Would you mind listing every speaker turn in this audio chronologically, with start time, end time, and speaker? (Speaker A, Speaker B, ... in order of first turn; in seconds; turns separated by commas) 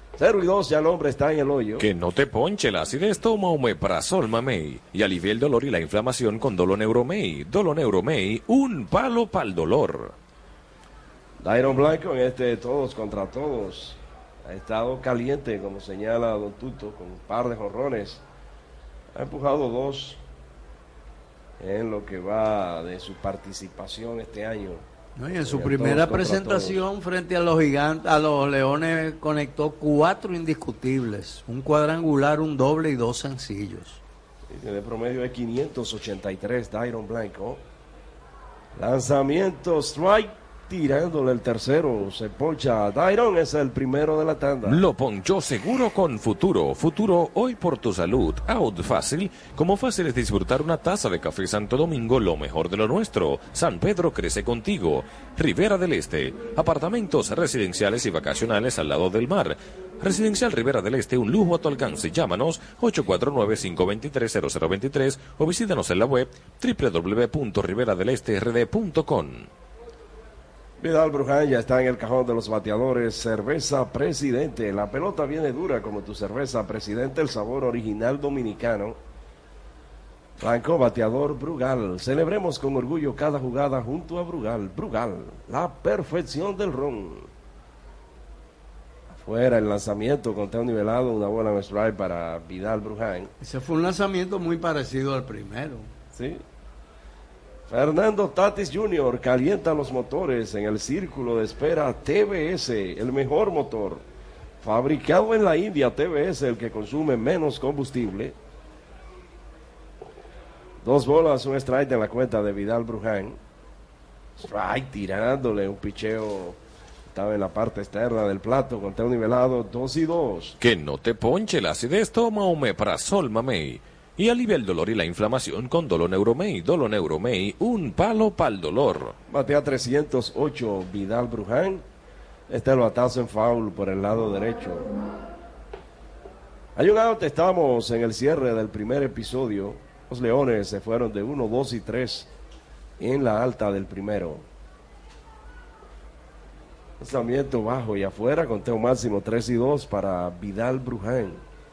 Speaker A: 0.2-1.8, Speaker B: 1.8-10.1, Speaker A: 11.4-18.2, Speaker A: 19.1-20.2, Speaker A: 21.6-24.8, Speaker C: 25.2-34.0, Speaker A: 25.4-26.9, Speaker A: 34.5-37.6, Speaker A: 38.8-44.8, Speaker B: 44.6-69.5, Speaker A: 70.8-79.0, Speaker A: 80.4-87.3, Speaker A: 89.1-93.3, Speaker C: 93.4-95.9, Speaker A: 96.1-96.4, Speaker A: 97.7-104.0, Speaker A: 104.6-108.3, Speaker A: 110.8-113.4, Speaker A: 114.4-116.6, Speaker A: 117.1-120.5, Speaker B: 120.6-129.1, Speaker A: 129.3-131.8, Speaker A: 132.5-134.9, Speaker A: 136.8-142.3, Speaker A: 143.0-144.4, Speaker A: 147.0-151.4